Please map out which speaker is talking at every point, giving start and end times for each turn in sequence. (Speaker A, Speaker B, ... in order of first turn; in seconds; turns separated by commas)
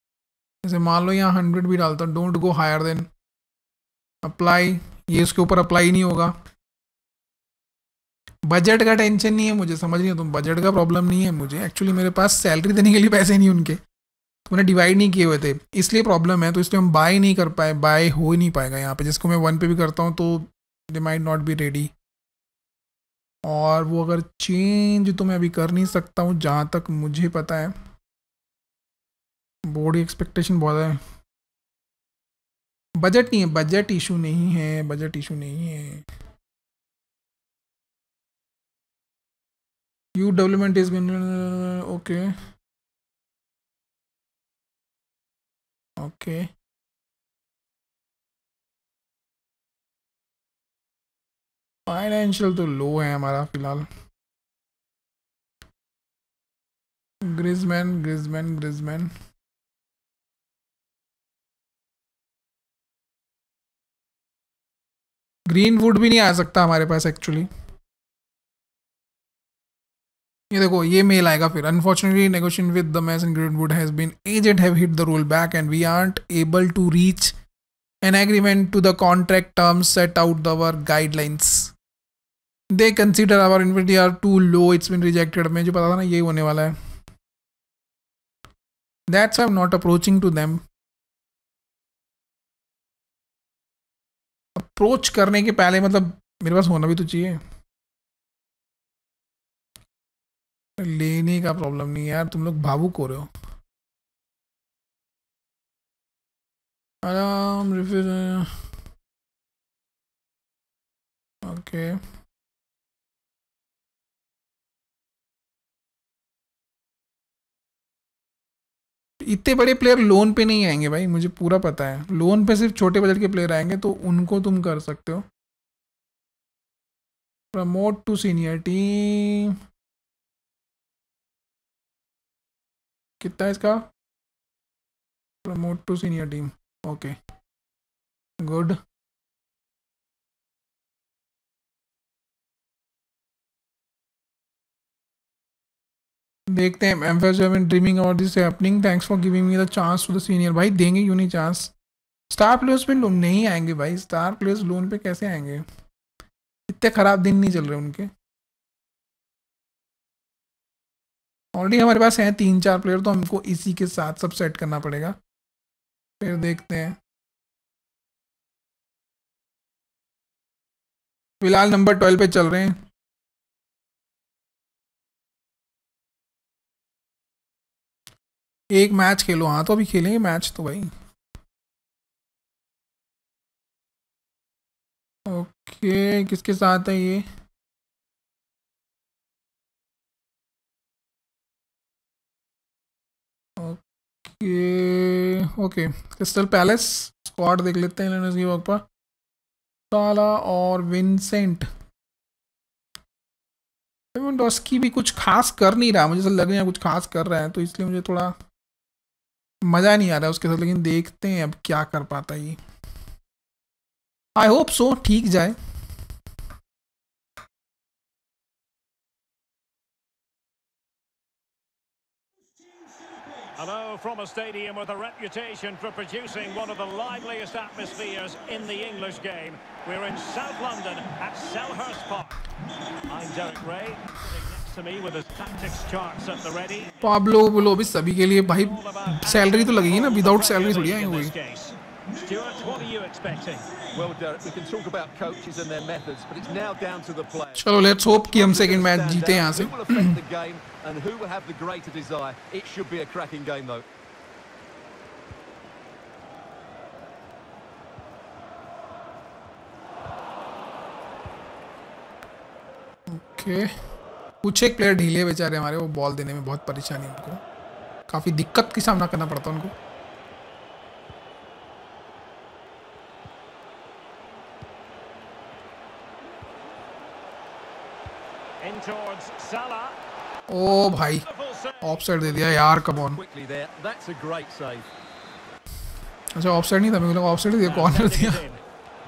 Speaker A: 0.6-3.1, Speaker A: 4.2-6.4, Speaker A: 8.5-13.8, Speaker A: 14.5-21.9, Speaker A: 23.4-27.7, Speaker A: 29.7-31.0, Speaker A: 33.0-36.1, Speaker A: 40.2-42.3, Speaker A: 46.0-46.5, Speaker A: 51.9-53.9, Speaker A: 57.2-59.1, Speaker A: 65.5-67.5, Speaker A: 70.5-77.4, Speaker A: 78.0-81.7, Speaker A: 82.7-86.7, Speaker A: 89.1-90.6, Speaker A: 94.5-97.4, Speaker A: 100.8-103.3, Speaker A: 107.0-108.6, Speaker A: 111.4-112.0, Speaker A: 119.2-125.3, Speaker A: 127.5-129.6, Speaker A: 133.2-133.9, Speaker A: 135.4-137.2, Speaker A: 138.4-138.8, Speaker A: 146.5-151.7, Speaker A: 152.3-155.7, Speaker A: 156.7-158.1, Speaker A: 161.6-165.2, Speaker A: 166.2-167.0, Speaker A: 171.4-172.8, Speaker A: 178.7-180.9, Speaker A: 185.3-187.3, Speaker A: 193.6-198.8, Speaker A: 199.9-201.7, Speaker A: 204.1-208.3, Speaker A: 209.6-212.6, Speaker A: 214.4-215.6, Speaker B: 223.6-232.4, Speaker B: 233.1-237.0, Speaker A: 237.0-241.3, Speaker B: 238.4-243.7, Speaker C: 243.8-253.9, Speaker A: 247.6-250.2, Speaker A: 263.1-263.7, Speaker A: 264.4-267.4, Speaker A: 268.1-269.7, Speaker B: 278.6-280.0, Speaker A: 280.5-281.3, Speaker B: 281.2-282.7, Speaker A: 281.8-283.2, Speaker C: 282.9-284.9, Speaker A: 286.4-288.4, Speaker B: 287.6-288.6